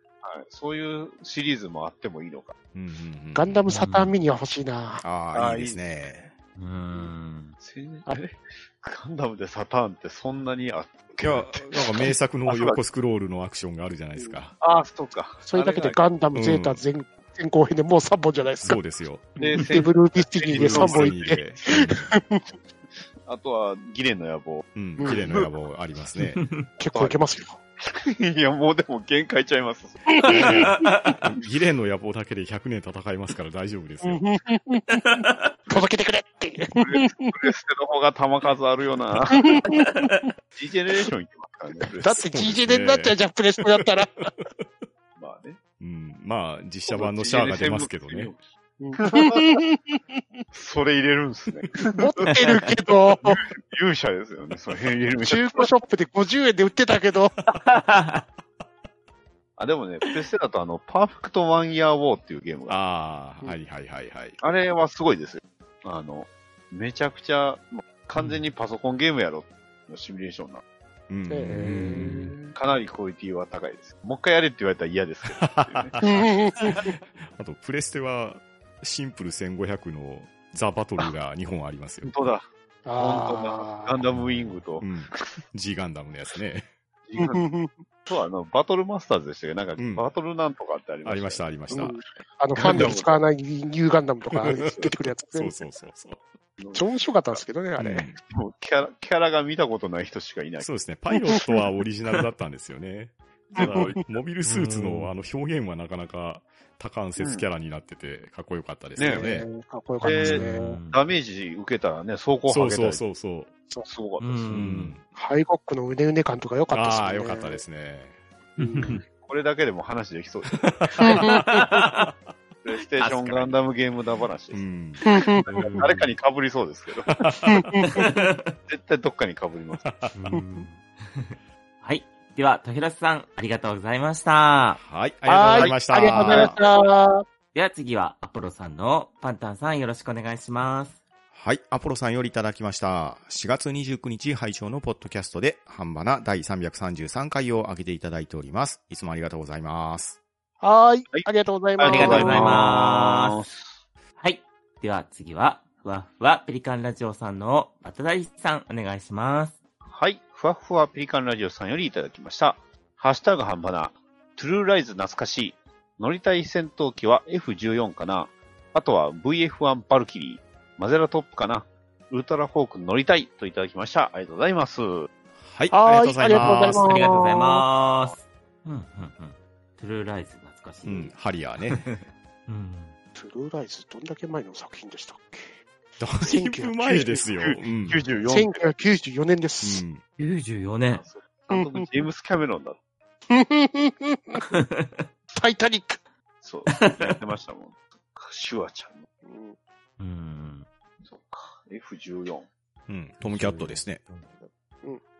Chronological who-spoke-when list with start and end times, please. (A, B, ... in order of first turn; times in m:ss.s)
0:00.2-0:02.5 A
0:02.7-0:03.7 B
0:03.3-0:05.0 C
0:03.7-0:04.1 D
0:05.0-0:06.3 B
0:05.3-0:06.3 A
0:06.6-0:07.6 D
0:07.6-0:12.8 A
0:11.2-0:14.6 B
0:14.2-0:14.4 C
0:14.6-0:16.0 A
0:15.4-0:18.8 C
0:16.3-0:16.8 B
0:18.6-0:19.3 B
0:19.4-0:22.4 C
0:19.4-0:21.8 A
0:20.5-0:22.1 B
0:23.2-0:25.5 A
0:24.7-0:26.4 B
0:25.0-0:25.2 C
0:26.2-0:26.6 D
0:26.8-0:27.6 C
0:27.8-0:30.4 A
0:30.1-0:30.9 C
0:30.3-0:34.2 B
0:30.4-0:31.2 D
0:34.0-0:37.3 C
0:35.0-0:35.5 D
0:36.7-0:39.6 A
0:39.3-0:40.2 C
0:39.7-0:40.1 D
0:40.6-0:42.2 A
0:42.0-0:44.2 C
0:42.1-0:43.2 B
0:45.2-0:45.6 A
0:45.8-0:48.3 B
0:46.9-0:48.4 A
0:48.8-0:50.4 C
0:49.0-0:49.6 A
0:50.5-0:52.3 A
0:51.9-0:53.4 C
0:53.2-0:55.7 A
0:55.2-0:57.3 C
0:57.5-0:58.2 D
0:59.6-1:02.8 A
1:02.7-1:04.4 B
1:04.4-1:10.6 A
1:11.1-1:12.3 B
1:11.3-1:12.5 C
1:11.6-1:12.3 D
1:12.5-1:16.0 A
1:15.3-1:22.1 B
1:16.0-1:16.9 C
1:22.0-1:25.4 A
1:22.8-1:24.0 C
1:24.8-1:26.7 B
1:27.1-1:27.5 A
1:27.2-1:27.8 C
1:28.1-1:33.2 A
1:29.8-1:30.1 B
1:31.0-1:32.0 B
1:31.7-1:35.8 C
1:34.4-1:36.2 B
1:36.6-1:37.4 A
1:36.7-1:38.1 C
1:37.8-1:38.2 B
1:38.2-1:40.7 A
1:40.6-1:49.5 B
1:43.5-1:44.0 A
1:43.6-1:44.0 C
1:44.4-1:45.1 D
1:47.2-1:47.5 A
1:49.0-1:49.2 A
1:49.0-1:50.8 C
1:50.0-1:51.0 D
1:50.0-1:53.0 A
1:52.5-1:53.5 B
1:53.8-1:54.7 A
1:54.2-1:55.0 D
1:54.5-1:55.0 B
1:55.1-1:57.6 C
1:56.7-1:58.1 B
1:58.6-1:59.0 C
1:58.7-1:59.0 D
1:59.1-2:01.1 A
2:00.5-2:01.2 B
2:01.0-2:01.8 C
2:01.3-2:02.1 D
2:02.6-2:04.6 A
2:02.9-2:03.6 D
2:04.5-2:05.9 B
2:05.0-2:05.7 C
2:05.5-2:06.1 D
2:05.8-2:07.2 A
2:07.1-2:08.0 B
2:07.5-2:08.0 C
2:07.9-2:08.5 D
2:08.7-2:09.8 A
2:09.8-2:10.2 B
2:10.1-2:14.8 D
2:10.3-2:10.6 C
2:14.8-2:16.6 B
2:15.2-2:17.2 C
2:16.3-2:16.5 A
2:17.5-2:21.0 D
2:21.3-2:30.2 B
2:30.6-2:32.5 C
2:31.1-2:33.8 A
2:31.8-2:33.4 D
2:34.2-2:39.6 D
2:39.8-2:55.1 A
2:55.4-2:57.0 B
2:55.7-2:57.6 C
2:56.3-3:01.1 D
3:00.8-3:01.8 B
3:01.6-3:03.0 D
3:03.1-3:05.6 C
3:06.0-3:08.0 B
3:06.2-3:07.3 C
3:07.4-3:08.8 A
3:08.3-3:09.8 C
3:09.6-3:10.0 B
3:10.2-3:11.0 D
3:10.9-3:12.8 A
3:11.5-3:11.9 C
3:13.3-3:14.4 C
3:14.4-3:15.0 D
3:15.3-3:16.0 C
3:16.4-3:19.0 A
3:16.7-3:17.2 D
3:19.2-3:19.6 C
3:20.0-3:20.7 D
3:21.0-3:22.5 A
3:22.9-3:24.0 B
3:23.2-3:24.4 D